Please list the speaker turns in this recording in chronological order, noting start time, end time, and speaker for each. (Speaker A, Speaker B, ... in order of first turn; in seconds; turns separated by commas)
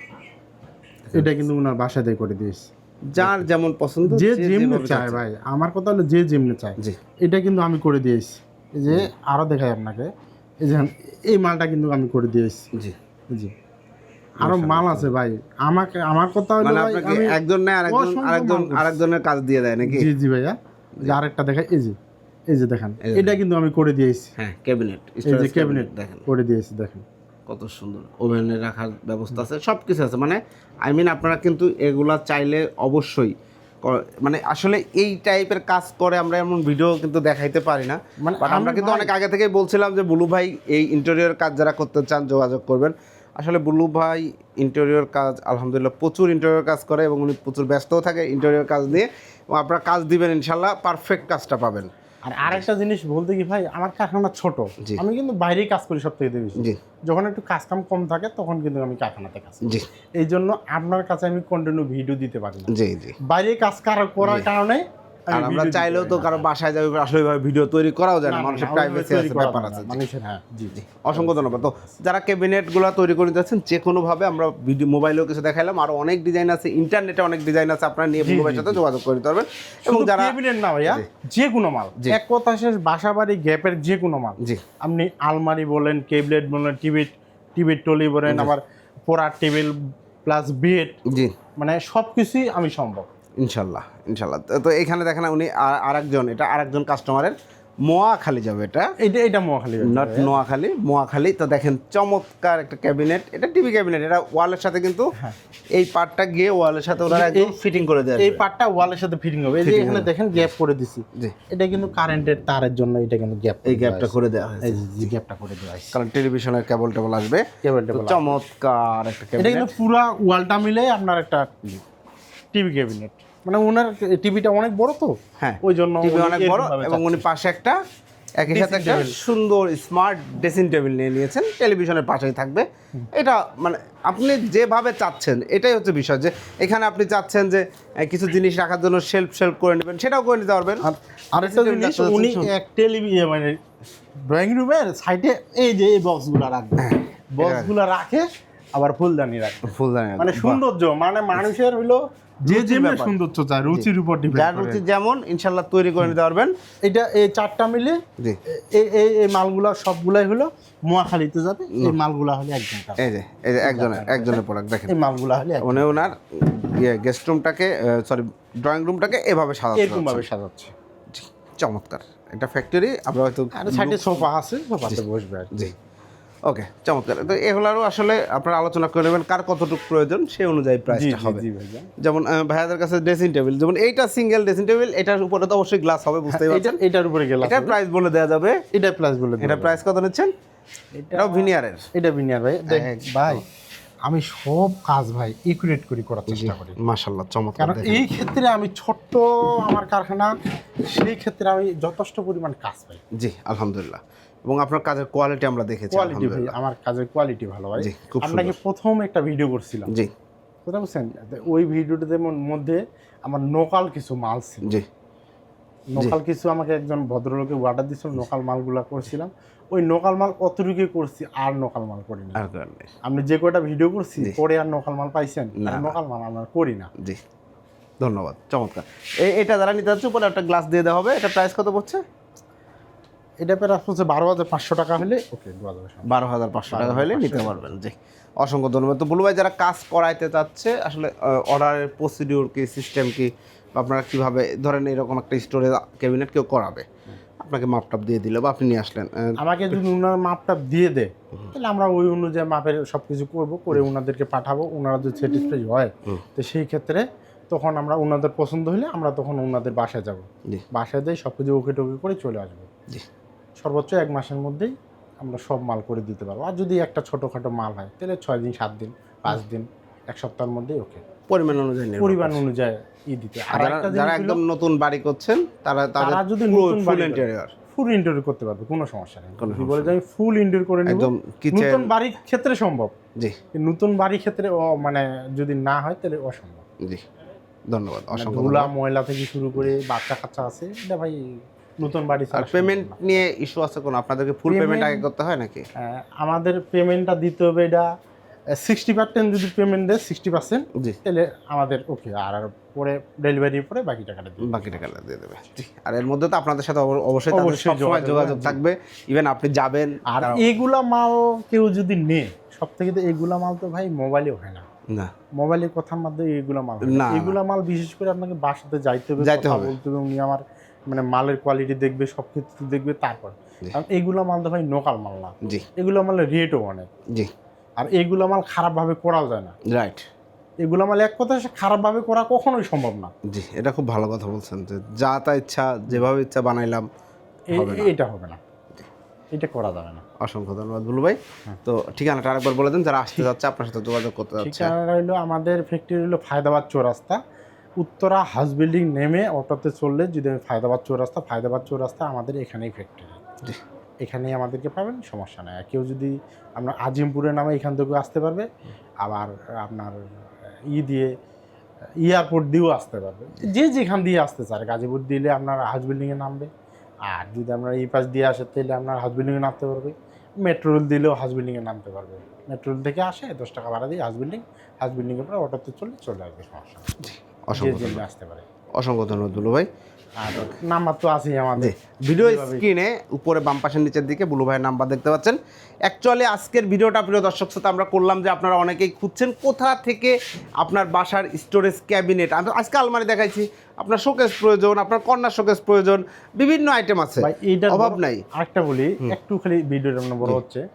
Speaker A: 1.1-1.4, Speaker B: 1.1-3.4, Speaker A: 3.1-5.2, Speaker B: 4.1-10.1, Speaker B: 10.6-12.7, Speaker A: 14.4-15.1, Speaker B: 14.4-19.0, Speaker A: 16.6-20.1, Speaker B: 19.8-22.0, Speaker B: 22.5-24.3, Speaker A: 23.0-23.4, Speaker A: 24.4-26.2, Speaker B: 25.2-27.0, Speaker A: 27.5-51.9, Speaker B: 38.2-39.1, Speaker B: 52.3-62.7, Speaker A: 59.6-59.9, Speaker A: 62.7-63.1, Speaker B: 63.2-66.4, Speaker A: 64.2-64.5, Speaker A: 65.3-70.0, Speaker B: 68.2-72.0, Speaker A: 70.7-80.3, Speaker B: 78.2-78.8, Speaker B: 79.8-91.0, Speaker A: 88.3-88.5, Speaker A: 91.0-91.3, Speaker B: 91.6-93.1, Speaker A: 93.4-98.9, Speaker B: 99.0-100.3, Speaker A: 99.8-105.1, Speaker A: 105.7-108.4, Speaker B: 107.1-107.5, Speaker B: 108.2-116.0, Speaker A: 109.6-110.1, Speaker A: 113.6-115.1, Speaker A: 115.9-119.7, Speaker B: 117.6-118.3, Speaker B: 119.4-121.8, Speaker B: 122.5-127.2, Speaker A: 125.4-127.8, Speaker A: 128.4-140.8, Speaker B: 128.5-129.2, Speaker B: 140.8-143.6, Speaker A: 141.4-142.5, Speaker B: 144.2-154.8, Speaker A: 146.8-147.7, Speaker A: 149.7-150.6, Speaker A: 152.5-153.2, Speaker A: 153.7-156.5, Speaker B: 156.8-163.0, Speaker A: 163.0-164.9, Speaker B: 163.6-166.1, Speaker A: 165.6-170.3, Speaker B: 169.7-170.7, Speaker A: 171.1-174.2, Speaker B: 173.5-175.6, Speaker A: 176.4-181.4, Speaker B: 180.9-181.9, Speaker A: 182.0-186.8, Speaker B: 186.3-187.8, Speaker A: 187.4-188.6, Speaker B: 188.7-189.8, Speaker A: 189.4-190.3, Speaker B: 191.0-193.4, Speaker A: 191.1-191.8, Speaker A: 192.7-193.4, Speaker B: 194.1-196.8, Speaker A: 196.3-198.0, Speaker B: 197.6-200.3, Speaker B: 200.8-203.0, Speaker A: 203.1-206.5, Speaker B: 205.9-209.9, Speaker A: 207.8-208.6, Speaker B: 210.7-214.8, Speaker B: 215.9-222.4, Speaker A: 222.3-222.9, Speaker B: 223.0-226.9, Speaker A: 225.6-225.9, Speaker A: 228.0-232.0, Speaker B: 233.4-236.1, Speaker A: 236.0-246.9, Speaker B: 236.7-237.7, Speaker A: 247.4-249.8, Speaker B: 249.4-262.7, Speaker B: 263.6-271.0, Speaker A: 271.3-272.4, Speaker B: 272.0-274.4, Speaker A: 273.5-277.5, Speaker B: 276.0-282.9, Speaker A: 279.4-279.9, Speaker A: 280.9-281.9, Speaker B: 283.5-286.6, Speaker A: 287.7-288.7, Speaker B: 288.1-293.1, Speaker A: 292.3-295.6, Speaker B: 294.5-295.0, Speaker B: 295.8-297.9, Speaker B: 298.6-304.8, Speaker A: 304.4-310.5, Speaker B: 307.3-308.6, Speaker B: 310.1-314.6, Speaker B: 315.4-326.9, Speaker A: 316.8-317.4, Speaker A: 319.2-319.7, Speaker B: 327.8-329.6, Speaker A: 329.6-330.0, Speaker B: 330.6-333.1, Speaker A: 333.2-336.9, Speaker B: 337.5-338.4, Speaker A: 337.5-337.9, Speaker B: 339.3-340.0, Speaker A: 340.2-344.7, Speaker B: 344.4-347.2, Speaker B: 347.8-353.2, Speaker B: 354.0-358.5, Speaker B: 359.0-360.0, Speaker B: 360.7-361.1, Speaker B: 362.0-366.5, Speaker B: 367.1-376.9, Speaker A: 377.0-378.0, Speaker B: 377.5-378.4, Speaker A: 378.8-379.7, Speaker B: 380.2-382.6, Speaker A: 381.6-398.2, Speaker B: 397.2-400.6